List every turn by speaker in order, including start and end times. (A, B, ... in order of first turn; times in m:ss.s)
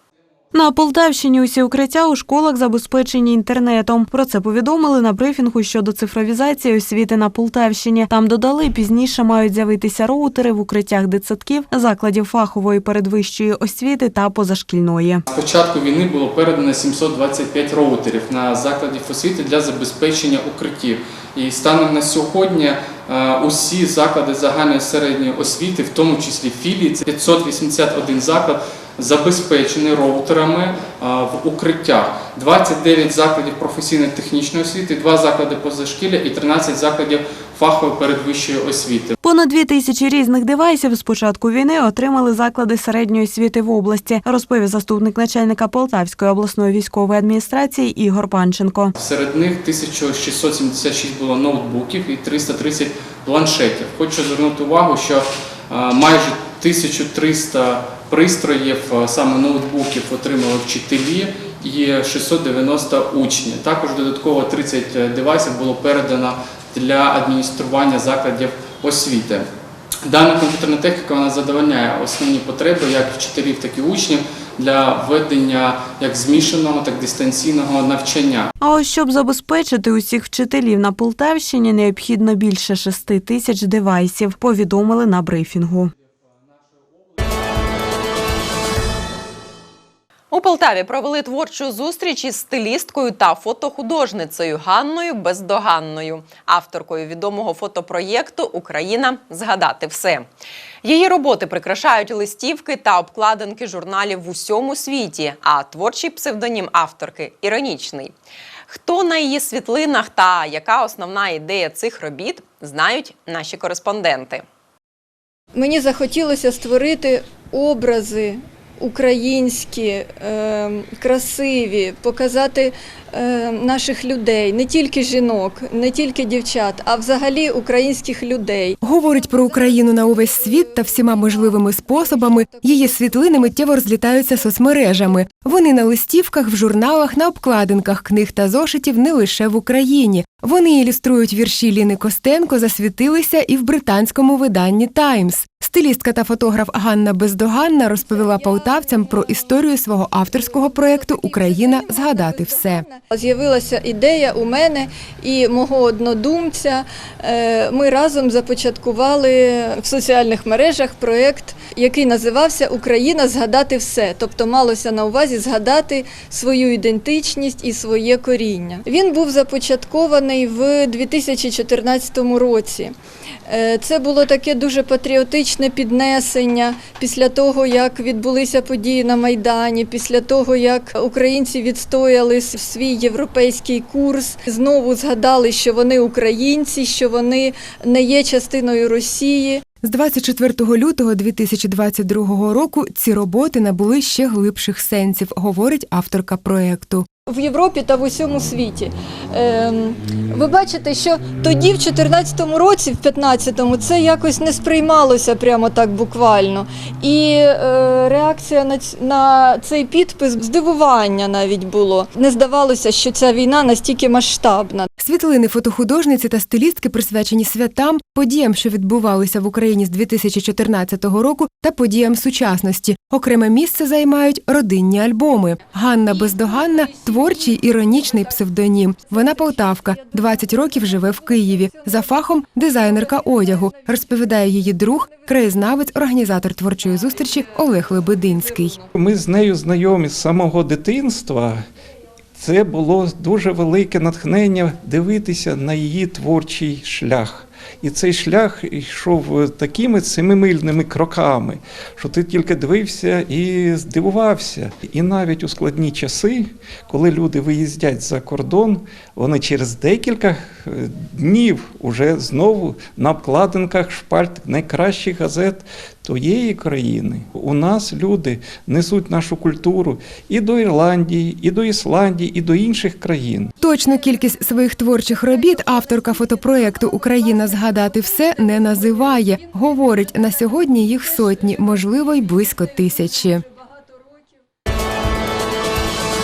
0:00.5-0:15.2 A
0:15.3-0:39.1 B
0:39.2-0:48.9 A
0:49.0-1:09.5 B
1:10.0-1:18.5 B
1:18.6-1:25.9 A
1:30.3-1:40.3 C
1:40.8-1:48.1 C
1:48.7-1:54.4 C
1:55.5-2:13.6 D
2:08.8-2:32.9 E
2:28.0-2:29.6 D
2:30.2-2:53.0 D
2:53.5-3:09.6 D
3:09.8-3:17.1 E
3:17.3-3:34.9 D
3:35.0-3:58.8 E
3:46.1-3:55.6 D
3:56.9-3:58.9 D
3:58.9-4:01.6 F
4:02.4-4:33.5 F
4:33.6-4:43.4 E
4:33.9-4:44.4 D